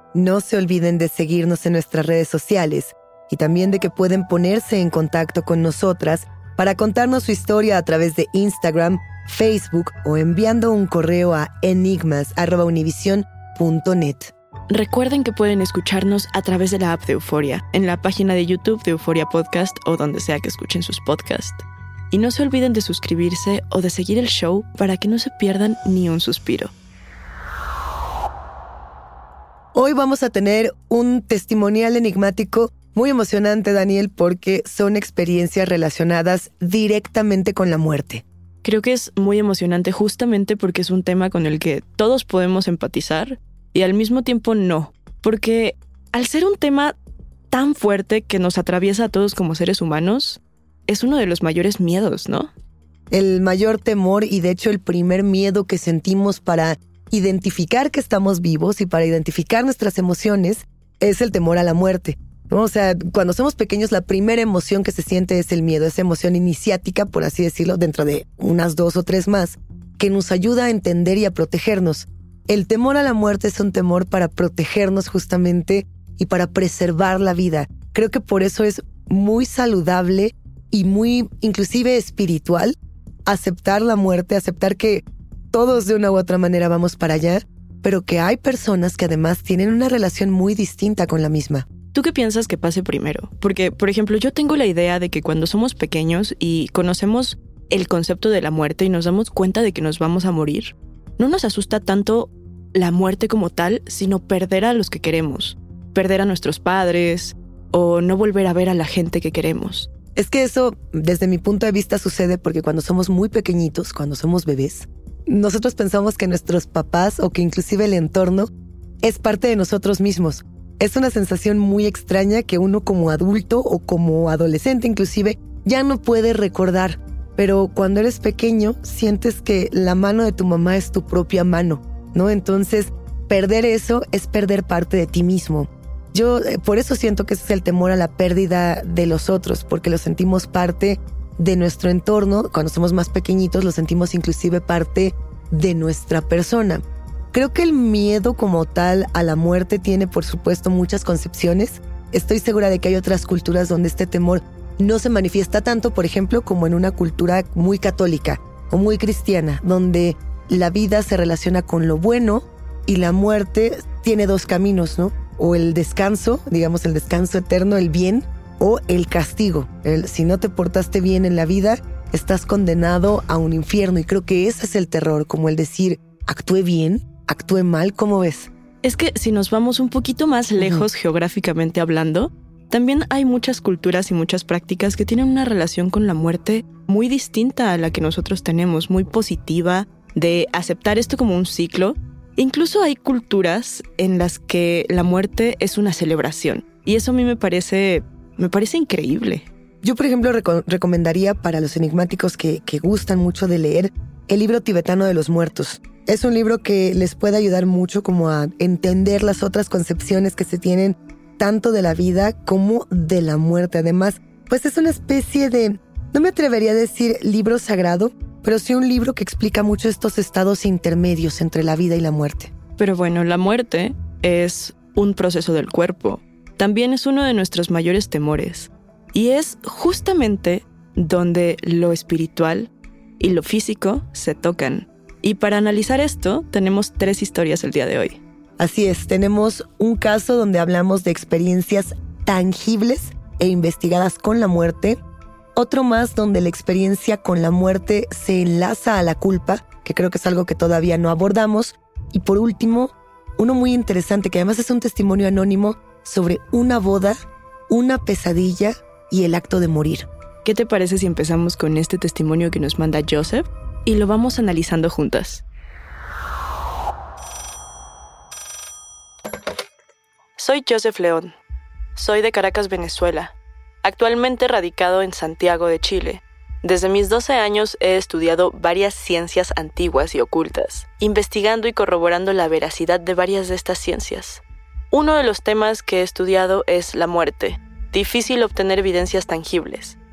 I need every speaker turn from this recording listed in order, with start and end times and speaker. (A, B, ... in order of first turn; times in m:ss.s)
0:00.1-0:14.3 A
0:14.7-0:26.7 B
0:29.7-0:38.2 A
0:38.6-0:47.0 B
0:47.5-0:52.5 B
0:53.1-1:31.7 A
1:31.9-1:49.9 B
1:50.1-1:58.5 A
1:59.0-2:58.5 A
2:58.8-3:19.5 B
3:00.6-3:00.9 A
3:19.8-3:42.5 A
3:42.8-3:58.2 B
3:58.6-4:05.0 A
4:05.6-4:17.2 A
4:17.7-4:20.1 A
4:20.4-4:25.4 B
4:30.4-4:31.4 B
4:32.0-4:50.0 B